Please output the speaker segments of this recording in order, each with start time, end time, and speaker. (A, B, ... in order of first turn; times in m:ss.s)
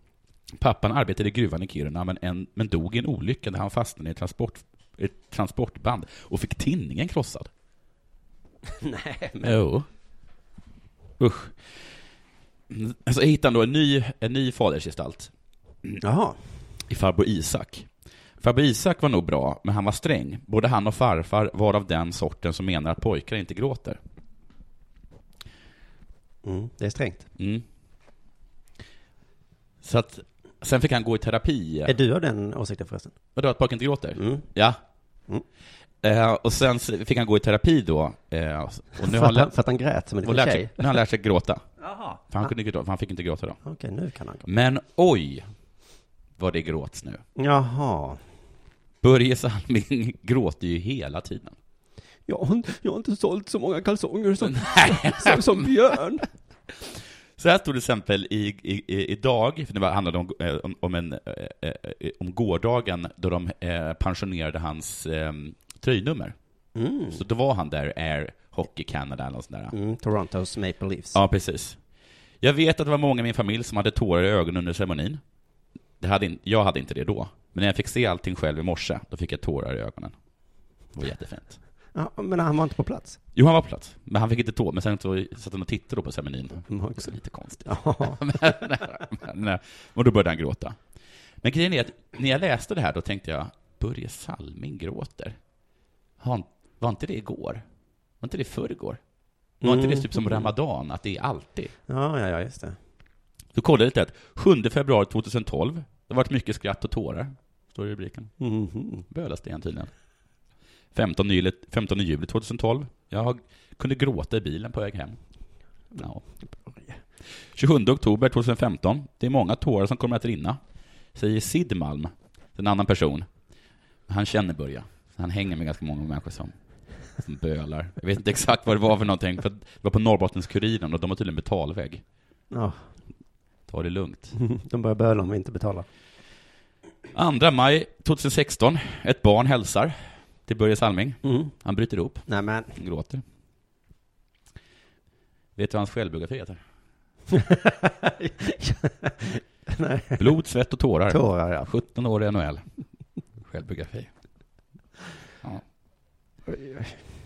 0:00.5-0:07.5 A
0:08.7-0:09.6 B
0:09.4-0:09.9 A
0:11.2-0:11.6 A
0:12.7-0:15.3 A
0:16.0-0:16.4 B
0:16.9-0:17.9 A
0:18.4-0:24.0 A
0:26.4-0:27.3 B
0:27.4-0:27.6 A
0:29.8-0:31.9 A
0:31.9-0:33.1 B
0:33.4-0:34.8 A
0:34.2-0:34.5 B
0:36.0-0:39.5 A
0:39.0-0:40.8 B
0:40.2-0:43.6 A
0:43.6-0:44.5 B
0:44.4-0:45.5 A
0:46.4-0:47.2 A
0:47.4-0:48.2 B
0:49.0-0:51.6 A
0:52.3-0:56.3 B
0:54.4-0:55.7 A
0:56.7-1:06.4 A
1:06.8-1:07.2 B
1:07.1-1:09.7 A
1:09.7-1:11.2 B
1:11.1-1:11.8 A
1:12.4-1:15.2 A
1:16.0-1:20.1 A
1:21.0-1:21.6 A
1:22.0-1:23.2 B
1:23.4-1:30.8 A
1:26.7-1:27.1 B
1:27.6-1:28.4 B
1:31.4-1:35.4 A
1:36.2-1:37.6 A
1:38.2-1:39.0 A
1:39.6-1:40.5 B
1:39.6-1:41.7 A
1:41.9-1:42.8 B
1:43.5-1:48.3 A
1:48.4-1:49.0 B
1:49.1-1:49.9 A
1:50.9-1:55.2 A
1:56.0-1:56.2 A
1:56.6-1:57.0 B
1:57.5-2:00.6 A
2:01.2-2:03.3 A
2:04.1-2:06.5 A
2:07.2-2:12.0 A
2:12.5-2:12.8 B
2:13.7-2:14.3 A
2:14.3-2:15.9 B
2:17.1-2:23.2 A
2:21.2-2:21.5 B
2:22.3-2:22.8 B
2:25.6-2:26.6 A
2:27.3-2:30.3 B
2:30.2-2:32.7 A
2:31.1-2:31.7 B
2:33.4-2:34.1 A
2:36.5-2:37.0 B